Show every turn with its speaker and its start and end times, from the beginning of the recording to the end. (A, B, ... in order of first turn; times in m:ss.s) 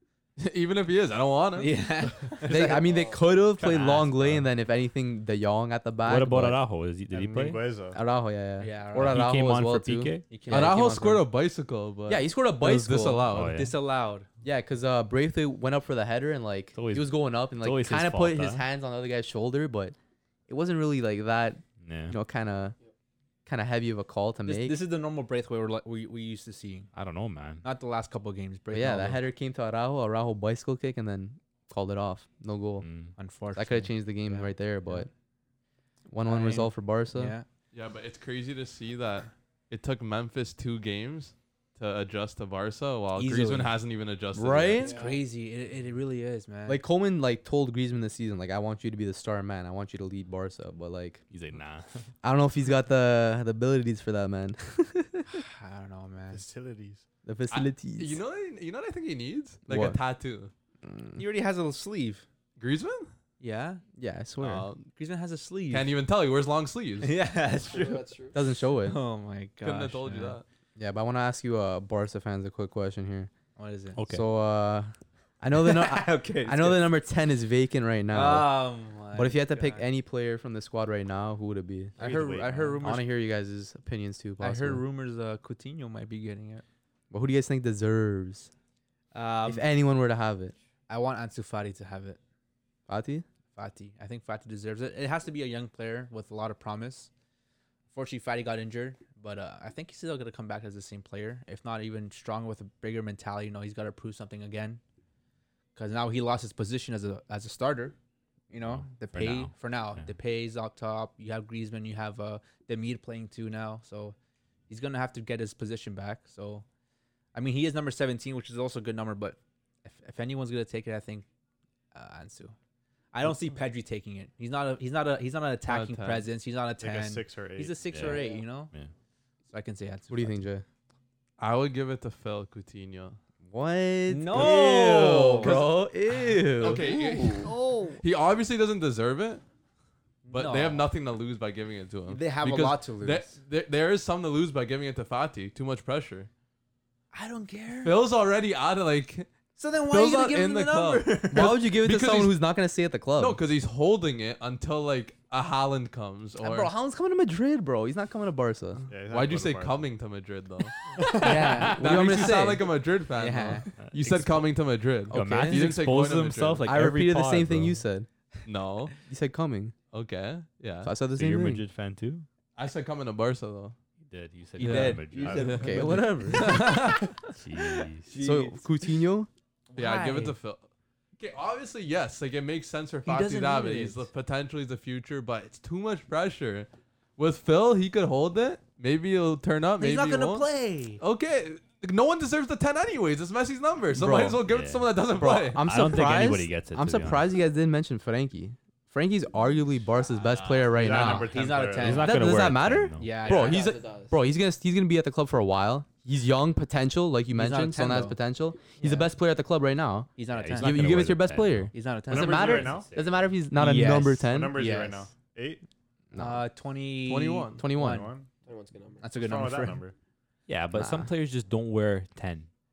0:00.4-0:01.8 A
0:01.6-0:02.9 B
0:02.4-0:06.6 C
0:02.6-0:03.2 D
0:03.6-0:04.5 E
0:06.0-0:07.6 E
0:07.1-0:08.0 F
0:07.9-0:11.2 C
0:08.6-0:09.3 B
0:08.9-0:10.4 E
0:10.3-0:11.0 B
0:10.5-0:13.6 A
0:12.1-0:13.3 C
0:13.3-0:13.7 E
0:13.4-0:14.3 B
0:14.4-0:19.9 C
0:16.8-0:18.6 E
0:20.5-0:22.8 C
0:21.8-0:22.2 E
0:23.4-0:24.8 C
0:24.4-0:26.9 B
0:26.9-0:27.6 E
0:27.6-0:29.2 B
0:28.7-0:32.9 C
0:32.8-0:33.1 E
0:33.2-0:35.1 B
0:33.5-0:35.1 C
0:36.1-0:37.3 C
0:36.2-0:37.4 B
0:37.7-0:44.9 A
0:43.1-0:43.7 B
0:44.3-0:44.9 C
0:44.8-0:46.8 B
0:44.8-0:45.2 D
0:46.6-0:51.2 C
0:51.3-0:52.1 E
0:52.2-0:55.4 C
0:55.3-0:56.4 B
0:56.3-0:57.0 F
0:57.2-0:58.2 C
0:57.5-1:00.5 A
0:59.6-1:00.0 C
1:00.8-1:01.2 C
1:01.2-1:02.2 B
1:02.6-1:03.1 A
1:03.4-1:03.8 B
1:04.0-1:04.7 C
1:04.4-1:04.9 A
1:04.9-1:05.9 B
1:05.7-1:07.1 A
1:07.0-1:08.0 B
1:07.6-1:08.4 D
1:08.3-1:09.0 C
1:08.8-1:10.4 B
1:09.6-1:10.4 A
1:10.8-1:13.3 C
1:13.6-1:14.0 B
1:14.0-1:14.2 E
1:14.1-1:22.0 C
1:15.6-1:16.9 B
1:18.1-1:19.8 B
1:22.0-1:22.8 F
1:22.0-1:23.1 B
1:22.8-1:24.8 C
1:24.4-1:26.6 B
1:27.1-1:28.5 C
1:29.1-1:29.7 B
1:29.4-1:30.5 C
1:30.9-1:32.2 B
1:32.9-1:33.2 C
1:33.5-1:37.1 B
1:37.9-1:44.8 B
1:45.7-1:48.0 B
1:48.5-1:54.1 B
1:48.6-1:50.1 E
1:54.7-1:56.6 B
1:57.3-2:01.2 B
2:01.9-2:02.5 B
2:03.1-2:08.7 B
2:05.7-2:06.3 A
2:06.8-2:07.8 F
2:07.9-2:08.9 E
2:08.1-2:08.4 D
2:09.5-2:10.4 B
2:10.1-2:10.6 C
2:11.4-2:13.2 A
2:13.4-2:17.5 C
2:14.1-2:15.6 B
2:14.3-2:15.8 A
2:16.5-2:19.4 A
2:16.8-2:17.4 D
2:20.2-2:20.8 B
2:20.3-2:26.3 A
2:22.1-2:23.3 B
2:27.1-2:28.0 B
2:27.8-2:29.3 A
2:29.6-2:31.6 B
2:29.9-2:32.4 A
2:31.3-2:33.4 C
2:33.2-2:36.7 A
2:36.4-2:38.9 C
2:38.9-2:39.9 F
2:39.1-2:40.8 A
2:41.0-2:41.2 F
2:41.1-2:42.0 B
2:41.1-2:42.7 C
2:41.4-2:46.6 A
2:43.1-2:43.7 B
2:43.8-2:44.5 E
2:45.1-2:45.7 C
2:45.1-2:47.8 E
2:46.6-2:48.1 C
2:48.4-2:48.9 A
2:49.0-2:49.7 C
2:49.9-2:50.9 A
2:50.8-2:51.6 C
2:51.1-2:52.3 E
2:52.6-2:53.8 A
2:54.1-2:55.6 E
2:54.6-2:57.4 B
2:54.6-2:57.0 A
2:55.2-2:55.6 F
2:55.4-2:56.8 C
2:57.4-2:58.1 E
2:58.0-2:58.6 B
2:58.1-2:59.3 C
2:59.7-3:00.4 B
2:59.8-3:10.5 A
3:03.0-3:04.1 B
3:09.8-3:11.0 B
3:11.0-3:15.7 A
3:13.9-3:14.4 C
3:14.5-3:14.9 E
3:15.2-3:21.3 C
3:15.6-3:17.3 E
3:20.2-3:21.1 A
3:20.7-3:22.1 F
3:20.8-3:22.2 B
3:21.8-3:23.1 E
3:21.8-3:23.5 C
3:23.0-3:23.8 B
3:23.2-3:24.2 D
3:23.3-3:23.6 A
3:24.1-3:34.6 C
3:27.3-3:28.2 B
3:28.8-3:29.1 B
3:30.2-3:30.9 B
3:30.3-3:31.7 E
3:31.7-3:32.8 B
3:32.1-3:32.9 F
3:32.4-3:33.3 E
3:33.5-3:35.1 B
3:34.2-3:35.6 F
3:36.1-3:36.4 C
3:36.2-3:38.1 B
3:37.0-3:37.7 A
3:37.6-3:38.1 C
3:37.8-3:38.3 F
3:38.4-3:39.1 D
3:39.0-3:39.8 B
3:39.2-3:39.9 F
3:40.5-3:42.5 E
3:40.7-3:41.1 C